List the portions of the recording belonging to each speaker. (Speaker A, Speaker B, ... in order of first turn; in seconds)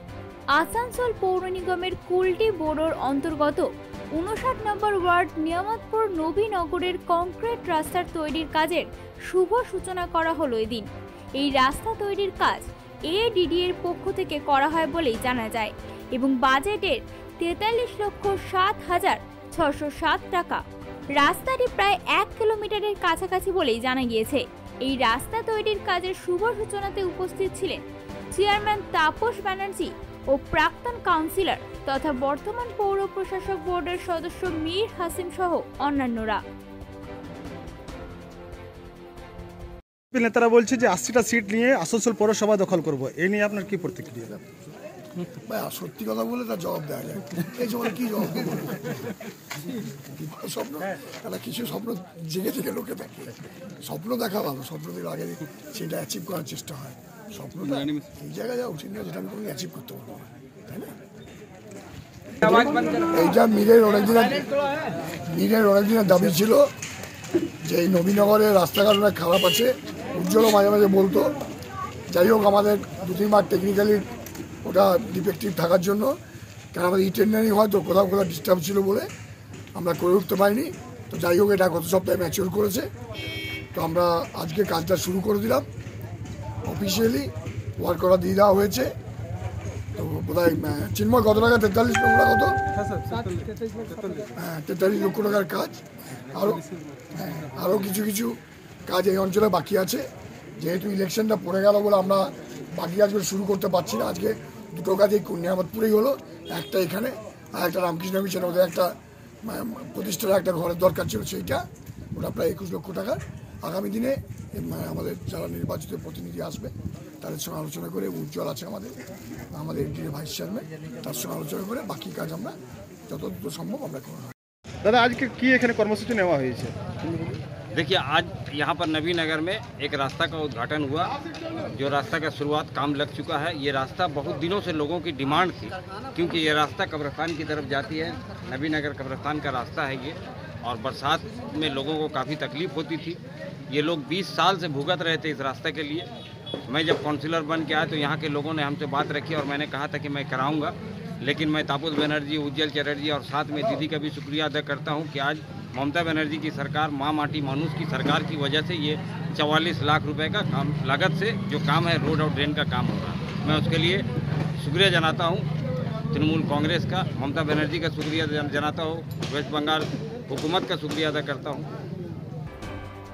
Speaker A: 0.5-3.6, 4.1-10.9, 11.4-20.6, 21.1-36.4
Speaker B: 40.1-44.4, 93.0-94.2, 124.8-127.3
Speaker C: 45.5-49.0, 50.1-60.9, 62.4-66.7, 67.6-71.3, 72.1-74.1, 74.6-76.2, 76.7-79.1, 79.7-82.9, 83.7-85.7, 86.6-88.9, 90.0-92.6, 94.3-119.0, 119.5-122.5, 123.1-124.3
Speaker D: 127.7-146.1, 146.7-165.5, 166.1-171.7